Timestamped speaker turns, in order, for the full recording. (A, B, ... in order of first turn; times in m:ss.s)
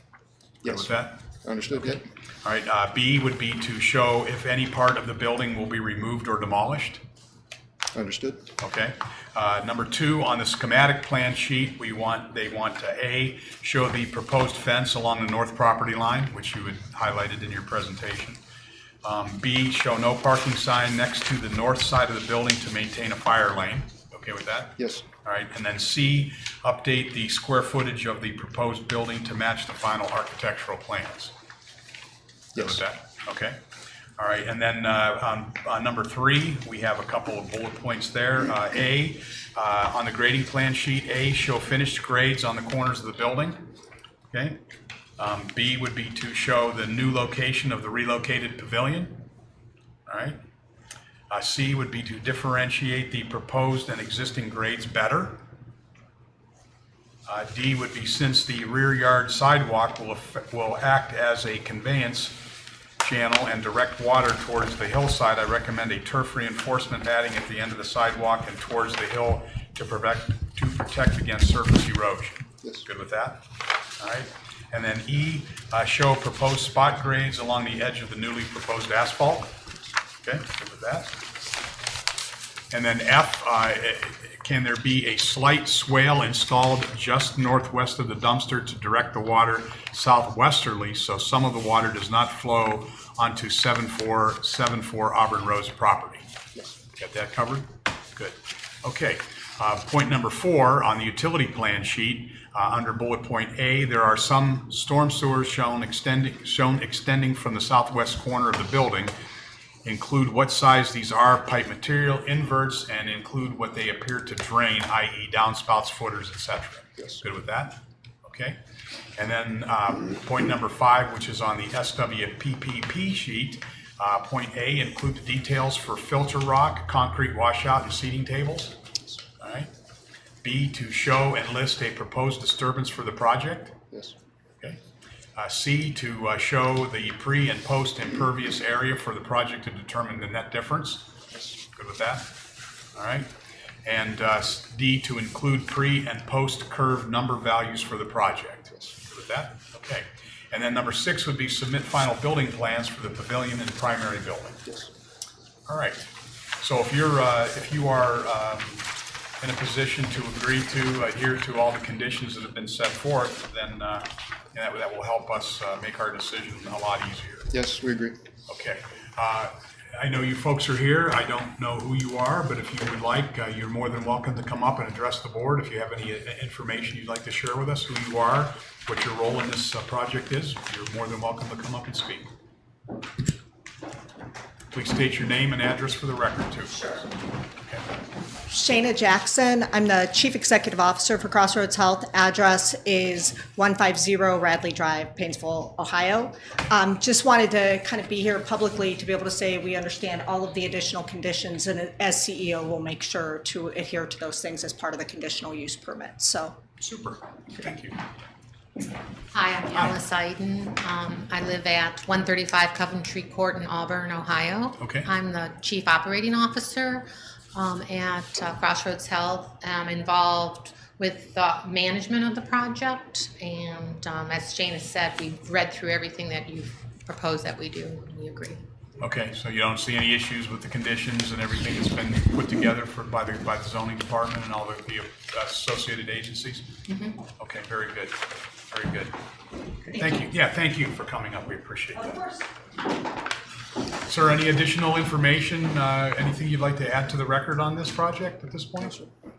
0:00.6-0:02.0 A
0:00.6-0:01.2 B
0:02.4-0:07.0 B
0:07.9-0:08.4 A
0:08.6-0:18.4 B
0:19.0-0:31.3 B
0:24.8-0:25.0 A
0:32.5-0:32.8 A
0:32.6-0:33.6 B
0:34.2-0:43.6 B
0:44.3-0:44.6 B
0:45.2-0:49.2 B
0:50.1-0:50.4 B
0:51.3-0:55.4 B
0:57.3-1:02.4 B
1:03.0-1:13.4 B
1:14.0-1:19.5 B
1:20.2-1:21.1 B
1:22.7-1:36.3 B
1:37.0-1:49.1 B
1:49.8-1:58.6 B
1:59.2-2:08.8 B
2:09.4-2:09.7 B
2:10.4-2:13.8 B
2:15.4-2:21.1 B
2:21.7-2:22.3 B
2:23.0-2:23.3 B
2:23.8-2:34.6 B
2:35.7-2:38.9 B
2:39.4-2:47.5 B
2:47.5-2:48.2 A
2:48.5-3:02.3 B
3:04.7-3:07.0 B
3:08.5-3:26.6 C
3:26.8-3:28.0 B
3:29.3-3:48.6 D
3:34.8-3:35.1 B
3:49.0-3:56.7 B
3:56.9-3:57.1 D
3:57.4-3:59.1 B
3:59.9-4:02.3 B
4:04.1-4:09.0 B